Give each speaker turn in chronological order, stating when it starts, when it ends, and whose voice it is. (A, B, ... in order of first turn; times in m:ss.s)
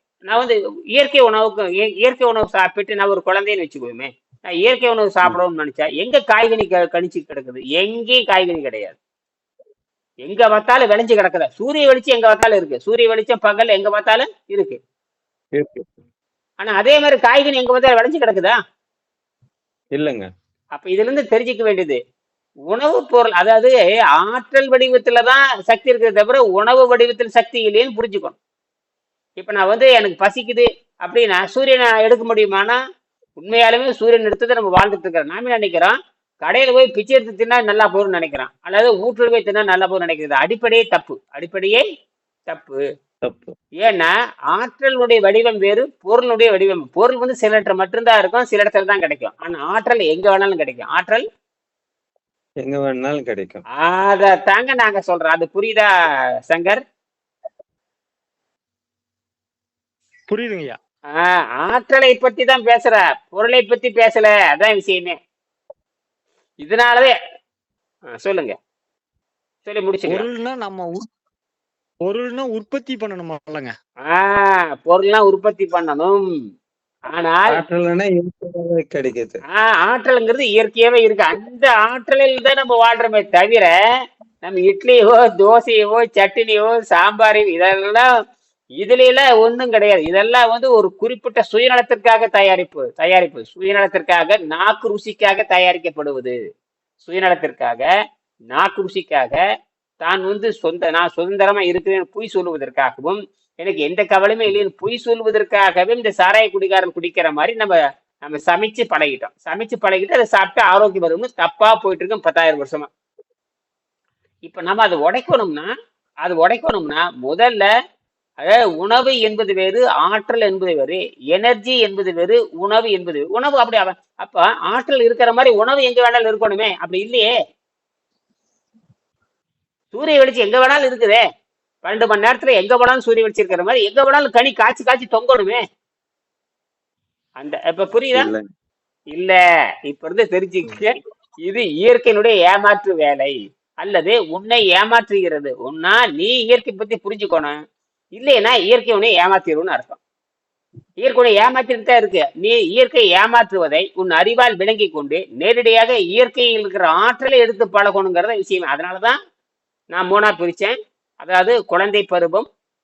0:00.3-0:09.0 A
0:10.2-0:14.8 A
0:15.5-0:15.9 B
0:16.6-0:18.6 A
0:19.9-0:20.2 B
0:20.8-0:22.0 A
0:22.7-0:28.4 A
0:29.4-0:32.8 A
0:33.4-0:41.8 A
0:42.5-0:42.8 A
0:43.2-0:43.5 B
0:43.8-0:51.2 A
0:52.6-0:53.6 B
0:53.8-0:55.9 A
0:56.5-0:56.8 A
1:00.3-1:00.8 C
1:01.2-1:05.1 A
1:06.6-1:07.1 A
1:08.1-1:08.5 A
1:09.6-1:10.2 A
1:10.1-1:11.0 C
1:12.0-1:13.7 C
1:14.1-1:16.2 A
1:17.1-1:17.5 A
1:17.5-1:19.4 B
1:19.6-1:23.7 A
1:24.4-1:28.0 A
1:28.8-1:36.3 A
1:37.0-1:37.9 A
1:38.5-1:39.4 A
1:40.0-1:52.9 A
1:54.4-1:55.7 A
1:56.2-1:57.7 A
1:58.4-2:07.3 A
2:09.9-2:11.2 A
2:11.8-2:15.6 A
2:17.4-2:18.3 A
2:18.2-2:18.4 B
2:19.9-2:27.6 A
2:28.2-2:30.0 A
2:31.0-2:39.2 A
2:39.9-2:42.5 A